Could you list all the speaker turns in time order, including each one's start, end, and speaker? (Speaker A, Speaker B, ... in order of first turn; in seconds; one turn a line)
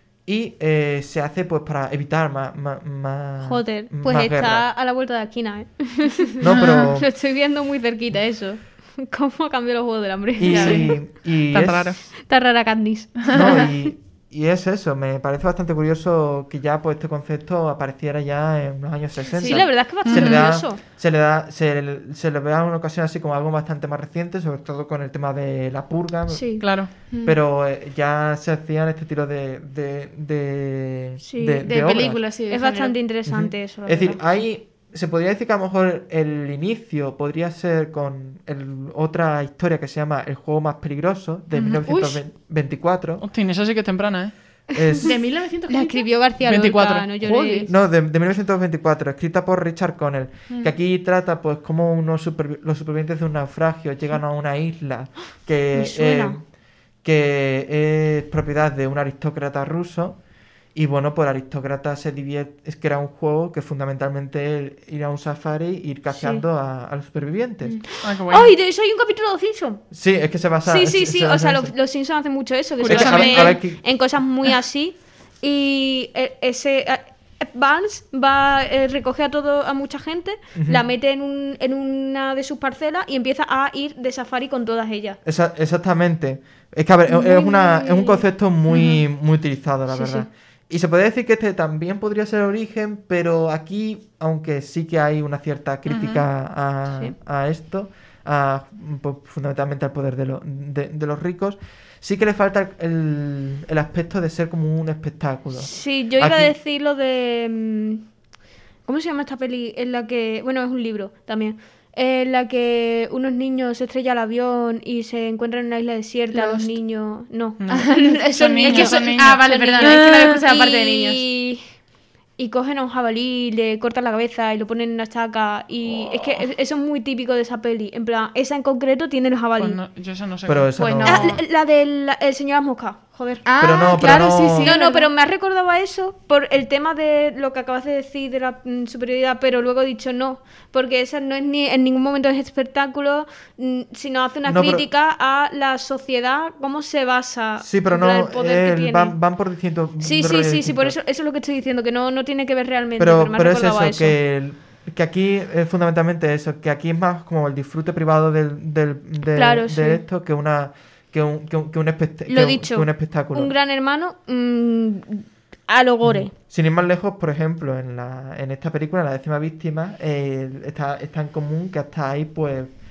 Speaker A: 0.2-4.7
Speaker B: 3.4-11.0
Speaker A: 6.4-7.1
Speaker C: 6.5-6.8
Speaker A: 10.3-12.0
Speaker C: 10.5-10.9
Speaker C: 11.5-12.0
Speaker B: 12.1-13.9
Speaker A: 13.3-26.7
Speaker B: 19.4-20.8
Speaker C: 20.0-20.5
Speaker B: 26.3-26.6
Speaker C: 26.6-26.9
Speaker D: 27.1-27.4
Speaker A: 27.2-32.2
Speaker B: 31.2-31.7
Speaker D: 31.6-33.0
Speaker B: 32.5-34.2
Speaker A: 33.2-43.2
Speaker C: 41.5-41.8
Speaker B: 41.9-42.2
Speaker C: 43.2-44.3
Speaker B: 44.7-45.1
Speaker A: 44.7-45.1
Speaker D: 45.0-46.1
Speaker B: 45.7-47.7
Speaker C: 46.4-47.1
Speaker D: 47.2-47.7
Speaker A: 47.6-56.4
Speaker B: 55.7-56.4
Speaker A: 57.0-60.2
Speaker A: 60.7-67.8
Speaker B: 66.1-66.4
Speaker C: 68.0-68.5
Speaker B: 68.2-69.8
Speaker A: 69.9-71.7
Speaker B: 70.6-85.2
Speaker C: 72.8-73.6
Speaker A: 72.8-73.8
Speaker A: 80.5-80.8
Speaker A: 85.2-106.5
Speaker B: 87.1-88.2
Speaker C: 88.7-89.0
Speaker B: 89.9-90.2
Speaker C: 95.9-96.2
Speaker B: 105.5-108.0
Speaker B: 108.8-121.6
Speaker D: 116.3-116.7
Speaker C: 117.6-120.4
Speaker D: 117.7-121.2
Speaker B: 122.4-129.8
Speaker C: 129.6-131.2
Speaker A: 130.4-131.4
Speaker D: 130.8-131.3
Speaker B: 131.1-134.0
Speaker D: 133.4-135.1
Speaker A: 133.6-134.8
Speaker B: 134.6-149.1
Speaker A: 144.4-144.8
Speaker A: 147.6-150.9
Speaker B: 150.0-154.2
Speaker A: 153.0-163.5
Speaker B: 159.3-160.0
Speaker B: 162.3-166.3
Speaker A: 166.0-172.7